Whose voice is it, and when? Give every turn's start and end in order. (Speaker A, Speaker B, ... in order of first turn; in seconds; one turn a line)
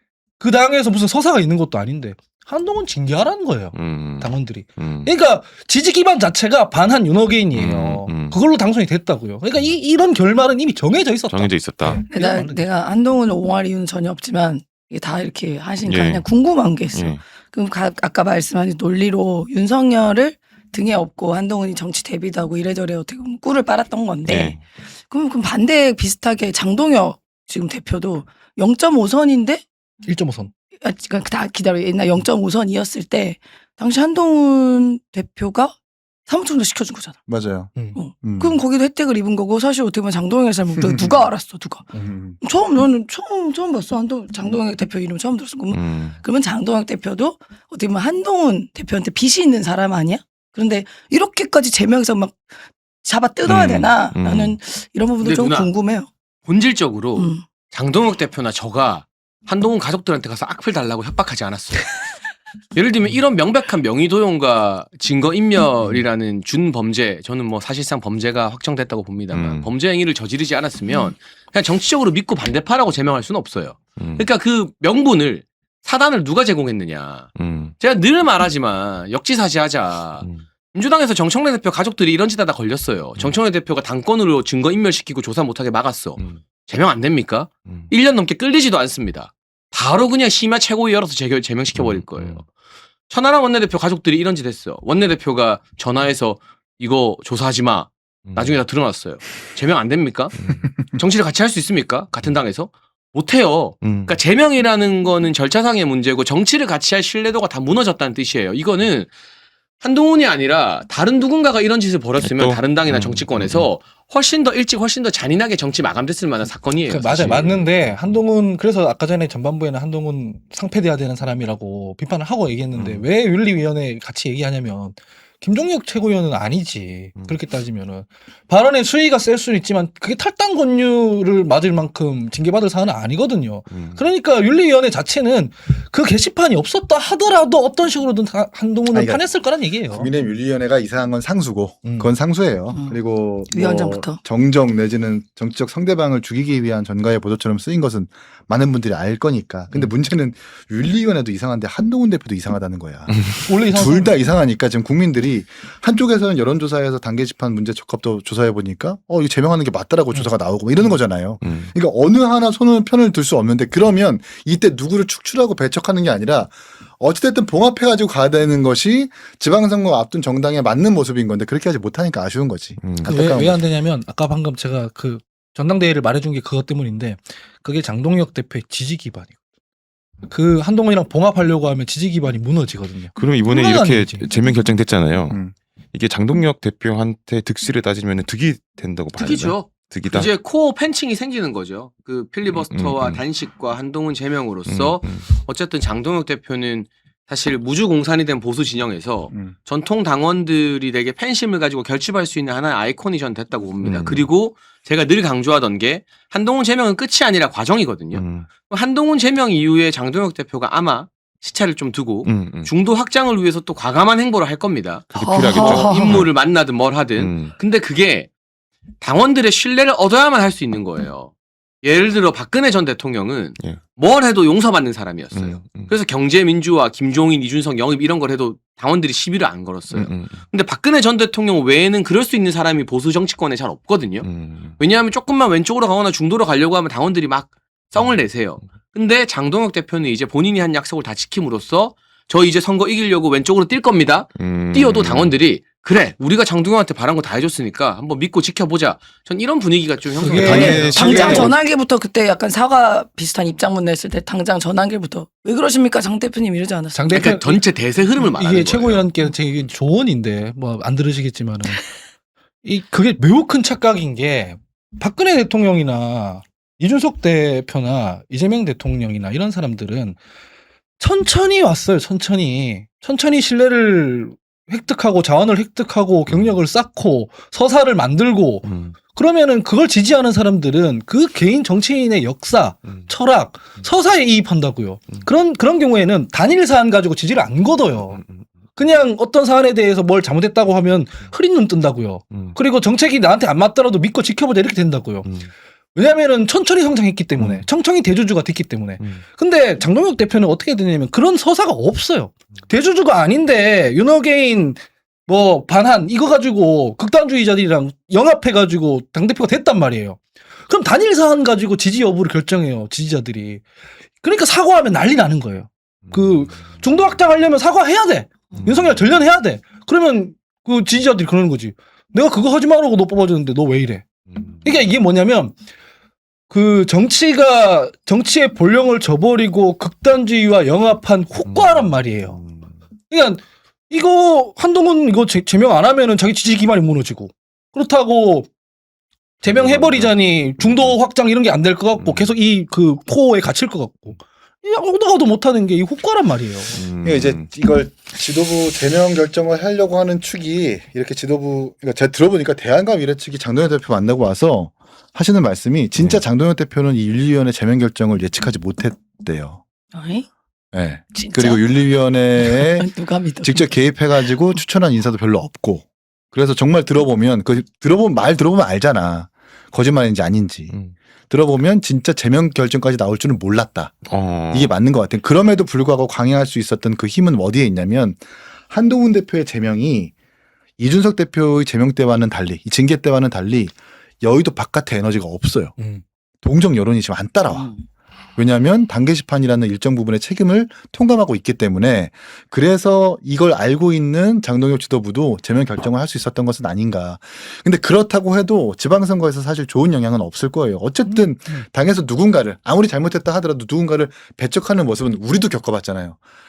Speaker A: 0.4-12.7
Speaker B: 3.7-5.1
Speaker B: 7.5-8.4
Speaker B: 11.3-12.0
Speaker C: 12.0-29.6
Speaker B: 15.8-16.3
Speaker B: 16.9-17.2
Speaker B: 24.2-24.6
Speaker A: 30.1-30.5
Speaker C: 30.8-35.7
Speaker C: 36.2-37.1
Speaker D: 37.3-38.6
Speaker C: 37.9-41.9
Speaker D: 40.8-41.3
Speaker D: 41.9-42.4
Speaker C: 42.4-52.5
Speaker B: 45.7-46.2
Speaker C: 53.0-56.1
Speaker B: 53.5-54.6
Speaker E: 55.2-55.7
Speaker E: 56.4-62.0
Speaker C: 57.1-57.5
Speaker E: 62.7-92.5
Speaker B: 69.3-69.7
Speaker B: 74.0-74.3
Speaker B: 77.3-77.7
Speaker B: 80.2-80.5
Speaker B: 91.7-92.4
Speaker E: 93.1-100.3
Speaker B: 98.2-98.6
Speaker B: 100.3-100.7
Speaker E: 100.9-109.1
Speaker B: 103.8-104.2
Speaker E: 109.8-117.6
Speaker B: 112.2-113.7
Speaker A: 116.8-140.1
Speaker B: 117.1-118.1
Speaker B: 122.7-123.0
Speaker B: 133.7-134.0
Speaker D: 138.9-173.6
Speaker A: 141.8-142.1
Speaker C: 142.7-144.2
Speaker A: 153.4-154.3
Speaker A: 160.1-161.0
Speaker B: 161.4-161.7
Speaker B: 172.8-173.2
Speaker A: 173.1-179.3
Speaker A: 180.3-184.3
Speaker B: 183.2-190.3
Speaker E: 189.1-218.3
Speaker B: 192.5-193.2
Speaker B: 194.7-195.2
Speaker B: 203.8-204.3
Speaker B: 208.1-208.5
Speaker B: 212.2-212.7
Speaker B: 215.1-216.4
Speaker C: 215.1-216.2
Speaker B: 217.1-217.5
Speaker E: 219.0-234.3
Speaker B: 225.3-225.9
Speaker B: 229.9-230.4
Speaker B: 234.2-234.8
Speaker E: 234.8-251.5
Speaker B: 244.4-245.4
Speaker A: 250.2-251.5
Speaker B: 250.3-251.5
Speaker C: 250.4-257.2
Speaker A: 256.9-257.6
Speaker E: 257.1-259.1
Speaker A: 258.1-261.9
Speaker A: 262.6-270.2
Speaker A: 271.0-288.2
Speaker B: 276.3-276.5
Speaker B: 278.6-279.0
Speaker B: 288.1-288.5
Speaker A: 288.7-295.3
Speaker B: 295.2-295.5
Speaker A: 295.9-313.6
Speaker B: 297.4-297.7
Speaker A: 314.2-324.1
Speaker B: 316.1-316.4
Speaker B: 318.5-319.1
Speaker B: 324.3-324.6
Speaker A: 324.6-325.6
Speaker A: 326.5-332.4
Speaker B: 331.4-332.7
Speaker A: 333.1-338.5
Speaker B: 339.4-341.0
Speaker A: 339.4-346.8
Speaker B: 342.0-342.3
Speaker B: 346.8-347.5
Speaker D: 347.0-359.6
Speaker B: 355.9-356.2
Speaker C: 359.9-360.3
Speaker D: 360.7-362.9
Speaker C: 361.1-361.7
Speaker C: 362.4-363.9
Speaker D: 363.4-370.7
Speaker D: 371.3-380.1
Speaker B: 374.1-374.7
Speaker D: 380.8-385.8
Speaker A: 385.8-386.0
Speaker D: 386.4-387.7
Speaker C: 387.5-387.8
Speaker D: 388.4-406.2
Speaker A: 401.1-401.6